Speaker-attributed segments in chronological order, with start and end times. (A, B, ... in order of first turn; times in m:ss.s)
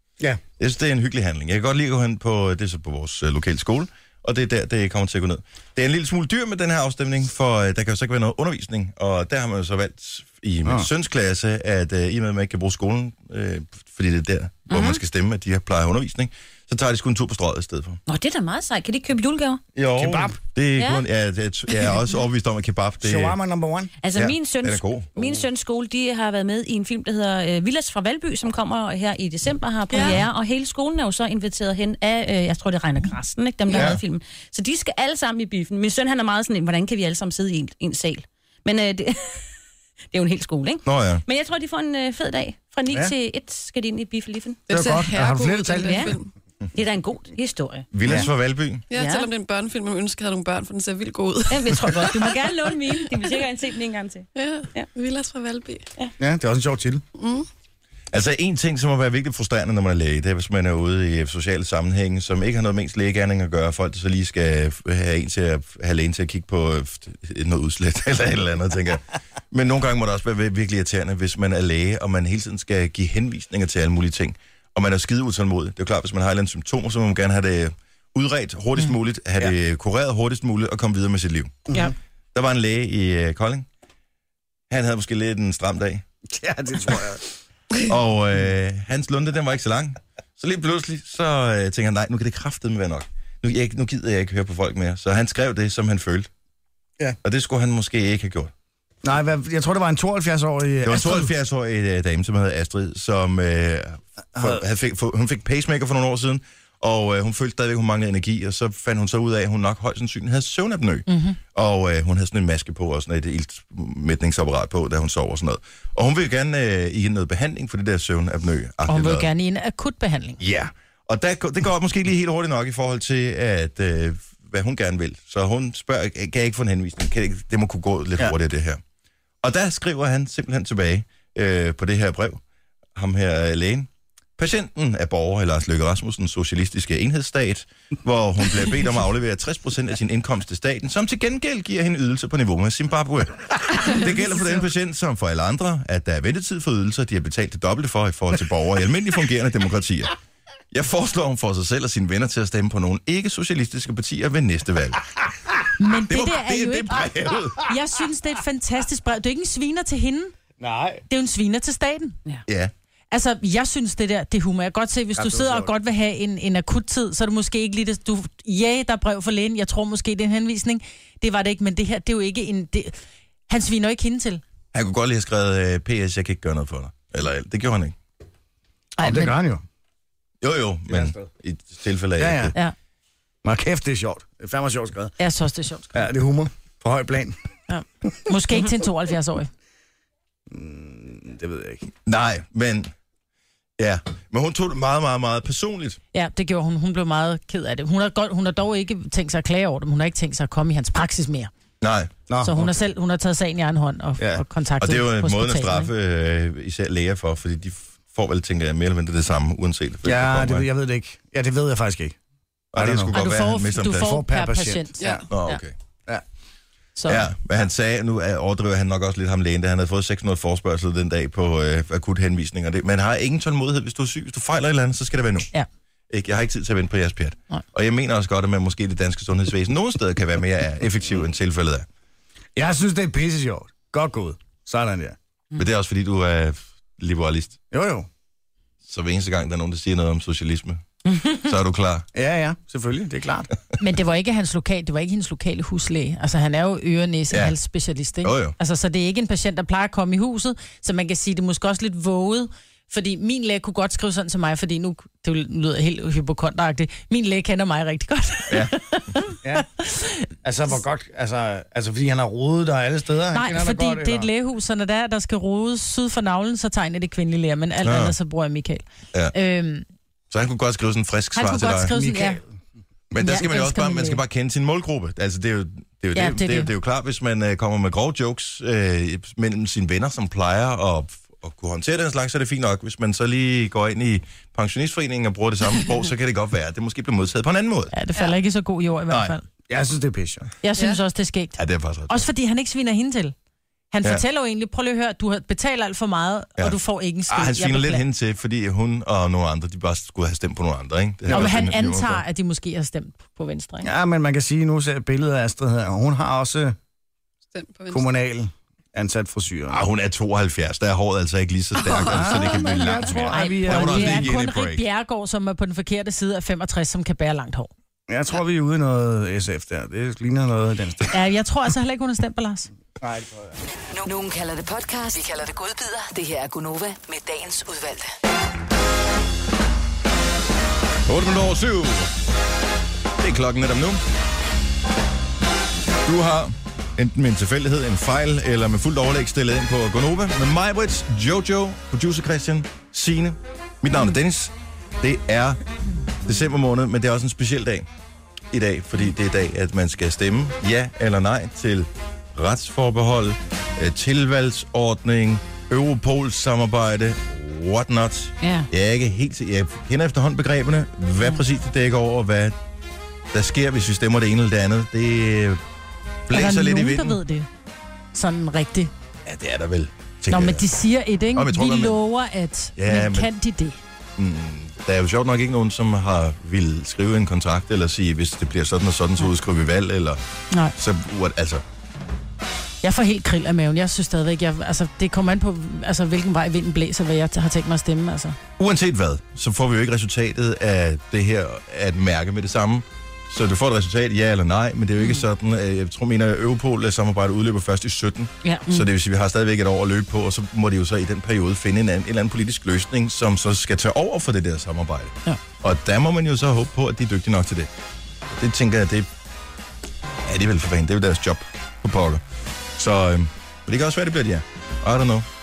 0:00.6-0:18.0 A
0:14.7-0:15.0 B
0:18.1-0:19.6 B
0:19.7-0:23.4 A
0:19.9-0:20.4 C
0:20.8-0:21.0 B
0:23.0-0:23.9 C
0:24.0-0:39.5 B
0:24.1-0:25.2 A
0:33.7-0:34.0 A
0:40.1-0:44.6 B
0:40.8-0:41.2 A
0:44.7-0:46.3 D
0:44.7-0:46.2 C
0:45.8-0:46.2 B
0:46.7-0:47.9 B
0:47.9-0:48.8 A
0:48.0-0:48.3 C
0:48.9-0:52.4 D
0:48.9-0:49.3 B
0:51.5-0:54.9 B
0:54.4-0:55.8 D
0:56.2-0:57.0 C
0:57.2-0:57.5 D
0:58.1-1:21.7 A
1:21.7-1:21.9 C
1:22.3-1:23.6 A
1:24.7-1:26.0 A
1:26.2-1:27.3 C
1:27.8-1:36.3 A
1:37.2-1:38.5 A
1:39.0-1:41.3 C
1:40.8-1:59.3 A
1:44.3-1:44.6 C
1:51.1-1:51.4 E
1:58.9-2:00.4 E
2:00.4-2:08.8 A
2:09.4-2:12.4 A
2:12.9-2:30.2 A
2:23.8-2:24.6 D
2:30.7-2:35.0 A
2:35.8-2:40.3 E
2:36.1-2:37.7 A
2:40.6-2:41.0 C
2:41.1-2:42.2 E
2:42.5-2:42.7 A
2:43.1-2:53.0 E
2:45.2-2:45.7 C
2:53.5-2:54.4 E
2:54.7-2:58.0 A
2:59.0-2:59.4 E
2:59.0-2:59.6 C
3:00.4-3:02.6 A
3:00.9-3:01.2 C
3:02.2-3:02.5 C
3:03.4-3:05.2 C
3:05.2-3:06.0 E
3:05.9-3:07.5 C
3:07.7-3:09.5 E
3:10.5-3:11.9 C
3:12.0-3:12.9 A
3:13.8-3:16.0 A
3:16.1-3:21.5 E
3:21.8-3:22.1 A
3:22.3-3:22.7 C
3:22.4-3:25.9 E
3:24.2-3:24.4 C
3:24.8-3:30.7 A
3:30.0-3:32.2 C
3:32.7-3:34.2 A
3:32.7-3:33.1 C
3:33.1-3:35.6 E
3:33.9-3:35.3 C
3:35.0-3:35.3 D
3:35.3-3:35.7 A
3:37.0-3:37.3 E
3:37.0-3:45.5 A
3:46.1-3:51.9 A
3:52.6-3:55.2 C
3:55.5-3:57.6 A
3:57.7-3:58.1 C
3:58.9-4:02.1 A
4:02.1-4:03.5 C
4:03.8-4:20.3 E
4:08.2-4:08.6 A
4:18.5-4:18.7 A
4:20.4-4:24.3 C
4:23.3-4:29.8 E
4:27.8-4:28.1 A
4:30.3-4:31.9 A
4:31.3-4:32.4 E
4:31.9-4:32.4 C
4:33.1-4:47.9 A
4:33.2-4:34.2 E
4:36.1-4:36.7 E
4:47.9-4:49.4 E
4:49.1-4:49.3 A
4:49.7-4:50.5 C
4:50.6-4:53.3 E
4:51.6-4:52.3 A
4:53.9-4:58.0 E
4:56.6-5:02.2 A
5:01.3-5:01.5 C
5:01.3-5:03.9 E
5:03.8-5:06.8 C
5:07.5-5:08.1 D
5:07.9-5:09.8 C
5:09.7-5:14.8 A
5:11.8-5:13.1 D
5:12.0-5:14.3 C
5:13.3-5:17.7 E
5:18.1-5:21.1 C
5:21.1-5:22.7 E
5:23.0-5:23.6 C
5:23.9-5:28.1 F
5:31.1-5:32.1 A
5:33.2-5:34.0 A
5:36.0-5:45.6 A
5:46.2-5:47.9 A
5:48.5-6:02.6 A
5:58.4-5:58.7 B
6:03.3-6:05.6 A
6:06.3-6:07.2 A
6:06.3-6:07.5 E
6:08.1-6:08.9 E
6:09.2-6:10.6 A
6:10.3-6:13.8 E
6:11.3-6:12.0 A
6:12.8-6:13.3 A
6:14.2-6:20.2 A
6:20.7-6:21.6 A
6:22.8-6:28.4 E
6:28.6-6:47.7 A
6:38.4-6:38.9 E
6:48.3-6:49.1 A
6:50.2-6:52.2 A
6:52.8-6:55.2 A